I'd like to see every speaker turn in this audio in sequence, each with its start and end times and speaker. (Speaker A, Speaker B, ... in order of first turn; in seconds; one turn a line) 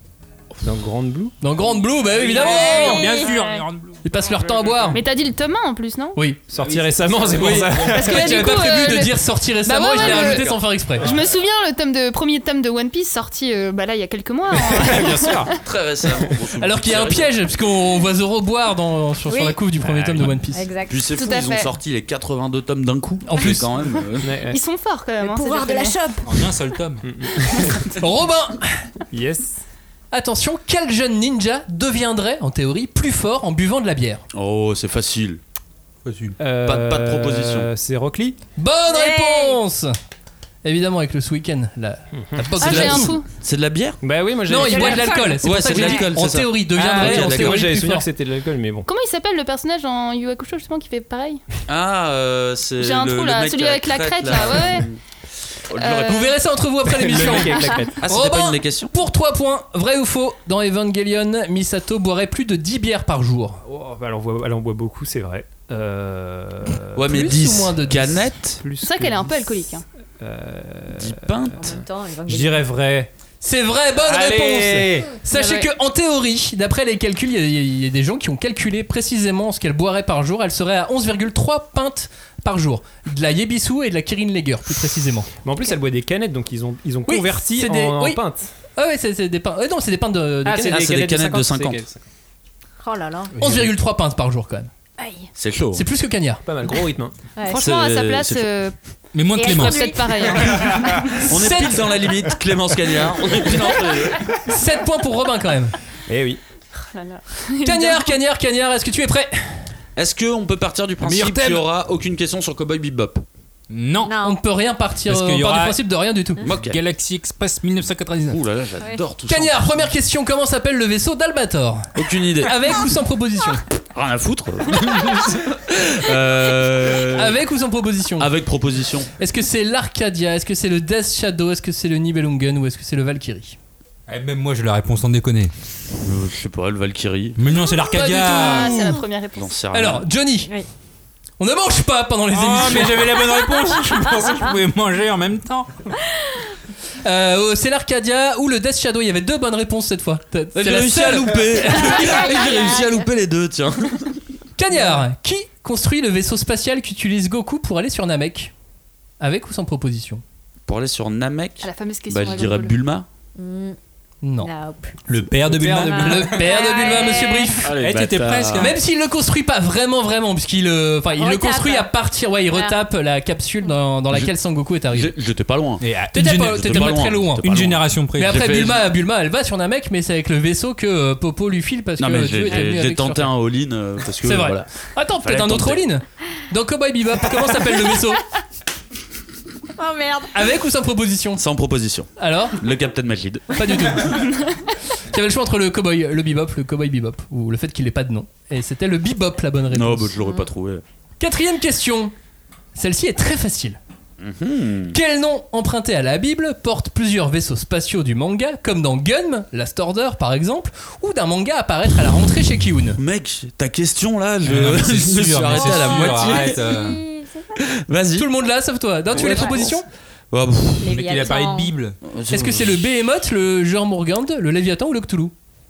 Speaker A: 0.6-1.3
Speaker B: 1.4-3.1
Speaker C: 2.2-4.9
Speaker D: 2.4-3.5
Speaker E: 2.4-3.6
Speaker B: 4.0-5.0
Speaker E: 4.9-6.2
Speaker A: 6.5-8.6
Speaker C: 6.5-8.3
Speaker B: 7.3-11.1
Speaker E: 7.9-15.6
Speaker F: 10.0-10.5
Speaker A: 11.0-11.3
Speaker A: 14.6-15.5
Speaker F: 15.6-17.3
Speaker B: 16.6-20.7
Speaker D: 19.3-19.6
Speaker D: 20.5-21.1
Speaker F: 20.9-24.4
Speaker E: 21.1-21.7
Speaker B: 23.2-23.7
Speaker A: 24.2-24.6
Speaker E: 24.5-26.0
Speaker D: 25.2-26.3
Speaker C: 26.2-27.1
Speaker A: 27.0-27.8
Speaker B: 27.9-28.8
Speaker A: 29.1-29.6
Speaker B: 30.1-34.2
Speaker F: 34.3-35.4
Speaker F: 36.1-37.7
Speaker A: 36.4-38.4
Speaker B: 38.6-39.9
Speaker D: 38.9-39.6
Speaker B: 40.6-43.2
Speaker A: 42.2-42.5
Speaker E: 42.6-43.2
Speaker F: 42.6-44.0
Speaker A: 44.0-45.2
Speaker B: 44.5-48.1
Speaker D: 44.5-46.1
Speaker F: 45.4-47.6
Speaker A: 46.7-48.9
Speaker E: 48.9-51.4
Speaker F: 51.7-55.0
Speaker E: 52.8-54.9
Speaker F: 55.7-56.3
Speaker E: 55.7-56.3
Speaker B: 56.0-63.6
Speaker A: 56.8-58.0
Speaker F: 58.0-58.9
Speaker A: 63.6-67.3
Speaker F: 66.9-68.6
Speaker B: 67.0-68.3
Speaker A: 68.6-73.1
Speaker E: 68.8-69.8
Speaker F: 71.0-71.8
Speaker D: 71.5-72.7
Speaker B: 73.4-85.3
Speaker A: 74.0-75.1
Speaker D: 75.3-75.7
Speaker A: 85.4-88.5
Speaker B: 87.1-88.2
Speaker B: 88.8-90.9
Speaker A: 90.4-92.0
Speaker F: 90.7-91.8
Speaker D: 92.8-93.3
Speaker B: 93.4-94.7
Speaker D: 95.0-95.3
Speaker F: 95.4-95.8
Speaker B: 95.7-96.4
Speaker A: 96.4-97.1
Speaker D: 97.3-97.7
Speaker E: 97.4-98.7
Speaker F: 97.5-98.5
Speaker C: 99.1-99.9
Speaker D: 99.3-100.5
Speaker E: 99.3-101.2
Speaker F: 100.5-104.2
Speaker B: 101.1-101.9
Speaker B: 104.4-105.8
Speaker A: 106.1-106.4
Speaker E: 106.8-108.1
Speaker B: 107.6-109.6
Speaker F: 110.0-113.2
Speaker C: 111.0-111.6
Speaker C: 113.7-114.1
Speaker D: 114.0-114.4
Speaker B: 114.2-116.4
Speaker C: 115.1-115.8
Speaker F: 116.4-116.8
Speaker C: 116.5-118.4
Speaker F: 118.3-119.9
Speaker B: 119.3-123.6
Speaker F: 122.0-122.6
Speaker F: 123.9-127.4
Speaker B: 127.1-128.3
Speaker F: 128.2-129.1
Speaker B: 129.2-133.6
Speaker C: 134.1-135.5
Speaker F: 136.0-137.4
Speaker C: 137.4-138.8
Speaker E: 137.8-139.5
Speaker B: 137.9-139.0
Speaker F: 139.3-140.1
Speaker B: 139.7-140.5
Speaker B: 141.4-143.1
Speaker C: 142.3-145.7
Speaker D: 143.3-144.5
Speaker B: 147.0-152.2
Speaker F: 150.5-154.2
Speaker D: 151.7-153.1
Speaker B: 154.6-158.5
Speaker B: 159.2-160.2
Speaker F: 160.7-163.1
Speaker E: 161.6-162.8
Speaker D: 163.3-163.8
Speaker B: 164.2-164.5
Speaker D: 164.4-165.0
Speaker C: 165.1-166.4
Speaker B: 165.5-167.7
Speaker D: 165.7-167.6
Speaker F: 167.6-168.7
Speaker C: 167.8-168.8
Speaker B: 168.6-175.1
Speaker D: 171.1-171.9
Speaker D: 172.5-172.8
Speaker F: 174.9-178.9
Speaker C: 175.8-176.9
Speaker B: 176.1-177.4
Speaker C: 177.4-178.5
Speaker B: 178.2-183.3
Speaker F: 182.0-185.8
Speaker B: 184.2-188.2
Speaker D: 189.8-190.4
Speaker B: 190.3-191.4
Speaker F: 191.4-193.5
Speaker B: 192.2-192.6
Speaker B: 193.5-194.3
Speaker B: 195.0-200.1
Speaker F: 199.7-200.8
Speaker D: 200.2-200.5
Speaker B: 201.2-202.1
Speaker B: 202.7-203.8
Speaker F: 204.2-204.9
Speaker B: 204.9-213.0
Speaker F: 213.0-216.7
Speaker C: 214.4-217.0
Speaker D: 215.6-217.6
Speaker F: 217.6-218.3
Speaker B: 218.2-219.8
Speaker F: 219.1-219.7
Speaker D: 219.2-219.7
Speaker F: 220.3-221.0
Speaker D: 220.8-221.7
Speaker C: 220.8-222.0
Speaker F: 222.0-222.9
Speaker B: 222.3-225.3